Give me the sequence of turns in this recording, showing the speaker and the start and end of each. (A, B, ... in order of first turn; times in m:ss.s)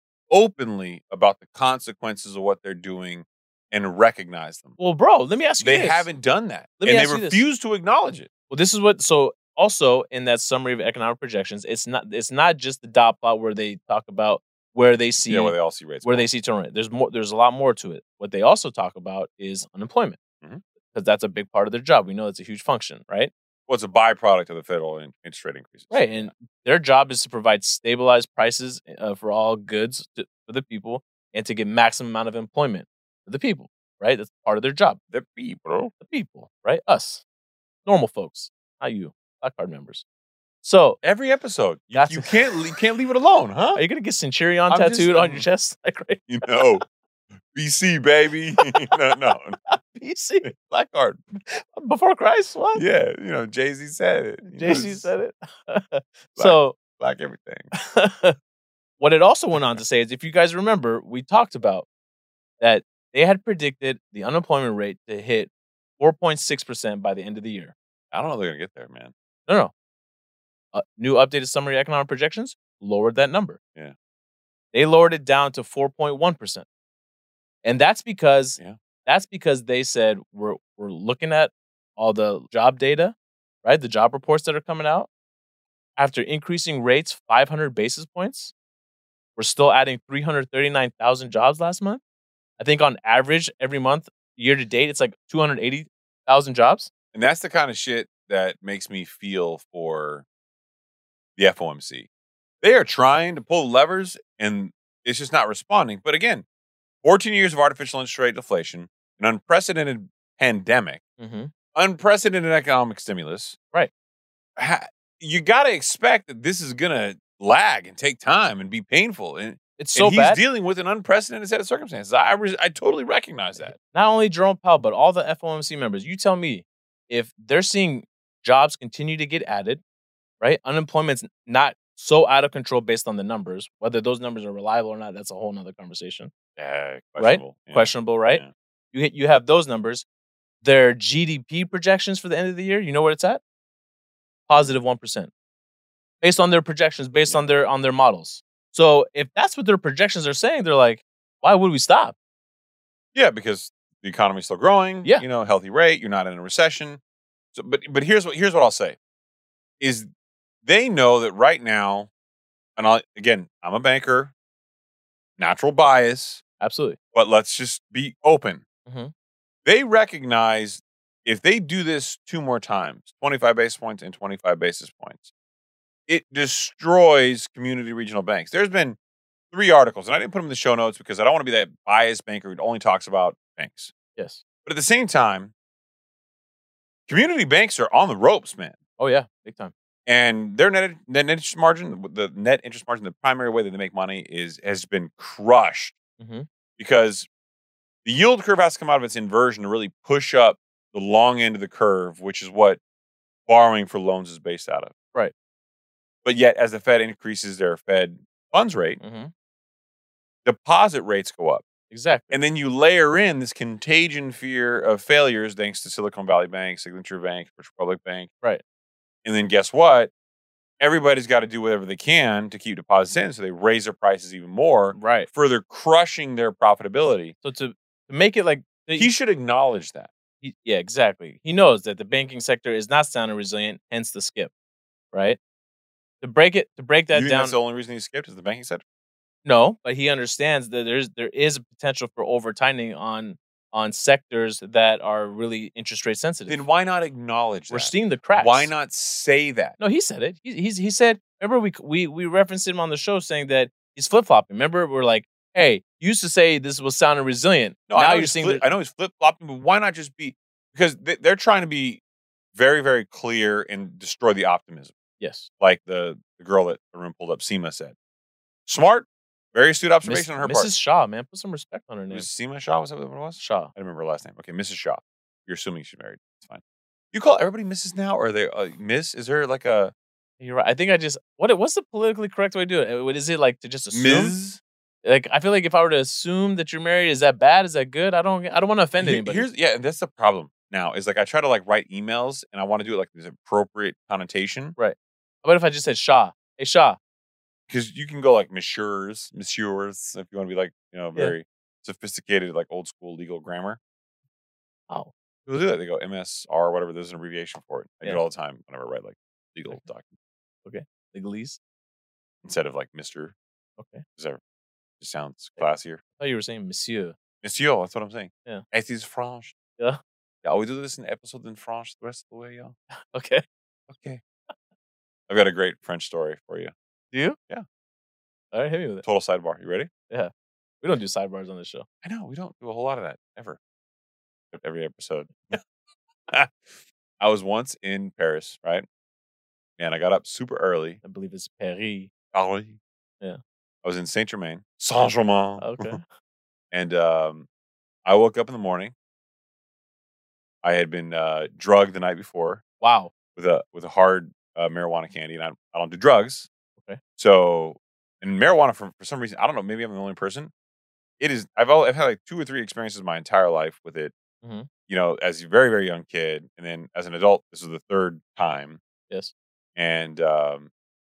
0:00.3-0:04.7 A
0:04.8-0:06.0 B
0:05.6-0:08.3 A
0:06.8-0:07.4 B
0:08.5-0:20.2 B
0:15.2-0:16.2 A
0:20.9-0:23.3 B
0:23.7-0:26.3 A
0:25.9-0:35.0 B
0:35.1-0:35.9 A
0:36.0-0:37.2 B
0:37.8-0:40.0 B
0:40.6-0:41.0 B
0:41.0-0:43.8 A
0:41.9-0:42.4 B
0:43.8-0:46.6 B
0:44.7-0:45.4 A
0:46.3-0:46.8 A
0:47.5-0:49.6 A
0:48.6-0:49.0 B
0:49.7-0:50.5 B
0:50.4-0:51.2 A
0:51.5-0:52.8 B
0:52.7-0:55.1 A
0:54.6-0:56.8 B
0:56.4-0:57.7 A
0:57.7-0:58.4 B
0:59.0-1:01.8 B
1:02.6-1:07.7 B
1:08.1-1:09.1 A
1:10.7-1:13.6 B
1:14.7-1:16.6 B
1:17.6-1:25.1 B
1:26.0-1:28.5 B
1:29.4-1:32.0 B
1:32.6-1:36.9 B
1:37.1-1:40.2 A
1:41.4-1:42.1 A
1:42.6-1:46.4 A
1:47.0-1:51.0 A
1:51.2-1:51.5 B
1:51.7-1:53.6 A
1:54.6-2:03.8 A
1:59.8-2:00.4 B
2:03.6-2:09.8 B
2:10.4-2:16.3 B
2:16.6-2:18.5 A
2:17.2-2:20.0 B
2:20.6-2:23.4 B
2:24.5-2:25.3 B
2:26.2-2:32.1 B
2:33.1-2:37.0 A
2:37.5-2:39.0 A
2:39.8-2:40.1 A
2:40.6-2:42.1 A
2:42.8-2:44.3 A
2:45.4-2:46.4 A
2:46.6-2:47.0 B
2:47.1-2:48.6 A
2:48.9-2:49.1 B
2:49.6-2:55.3 A
2:56.1-2:59.0 A
2:59.5-3:03.9 A
3:04.2-3:04.4 B
3:04.6-3:05.5 A
3:07.1-3:08.8 A
3:09.0-3:09.7 B
3:10.1-3:16.0 A
3:16.2-3:16.5 B
3:16.8-3:17.3 A
3:18.0-3:22.8 A
3:23.5-3:24.9 A
3:26.2-3:29.0 A
3:29.0-3:29.3 B
3:30.4-3:31.6 A
3:31.9-3:32.4 B
3:32.3-3:38.3 A
3:39.2-3:40.1 A
3:40.8-3:47.3 A
3:45.0-3:45.3 B
3:47.4-3:49.1 B
3:49.0-3:50.1 A
3:50.4-3:54.5 B
3:55.1-3:55.4 B
3:56.2-3:57.5 B
3:57.1-3:58.8 A
3:59.4-4:06.6 B
4:06.5-4:09.8 A
4:07.7-4:08.7 B
4:09.8-4:18.6 B
4:17.9-4:22.0 A
4:22.5-4:24.9 A
4:25.2-4:25.5 B
4:25.6-4:27.9 A
4:28.6-4:30.7 A
4:30.0-4:32.3 B
4:32.1-4:36.6 A
4:33.4-4:33.7 B
4:37.1-4:39.9 A
4:40.4-4:44.3 B
4:43.9-4:44.6 A
4:45.0-4:49.4 B
4:49.0-4:54.8 A
4:54.8-4:57.0 B
4:57.7-5:03.8 A
5:05.5-5:10.1 A
5:10.6-5:11.6 B
5:12.4-5:13.3 A
5:13.8-5:14.0 B
5:15.0-5:16.0 A
5:16.2-5:17.1 B
5:17.4-5:19.5 A
5:20.4-5:22.7 A
5:23.1-5:23.4 B
5:23.9-5:24.2 A
5:25.3-5:26.7 A
5:27.1-5:27.4 B
5:28.5-5:29.0 B
5:29.0-5:29.9 A
5:30.8-5:31.8 B
5:32.0-5:33.6 A
5:34.5-5:35.6 A
5:36.3-5:38.8 A
5:39.8-5:41.0 A
5:41.0-5:42.1 B
5:42.3-5:42.8 A
5:43.8-5:46.0 A
5:45.6-5:46.0 B
5:46.7-5:47.5 A
5:48.0-5:48.9 A
5:50.6-5:52.6 A
5:52.8-5:53.1 B
5:53.3-5:56.5 A
5:57.2-6:00.5 A
6:01.2-6:04.1 A
6:04.4-6:04.7 B
6:04.9-6:08.8 A
6:09.8-6:10.7 A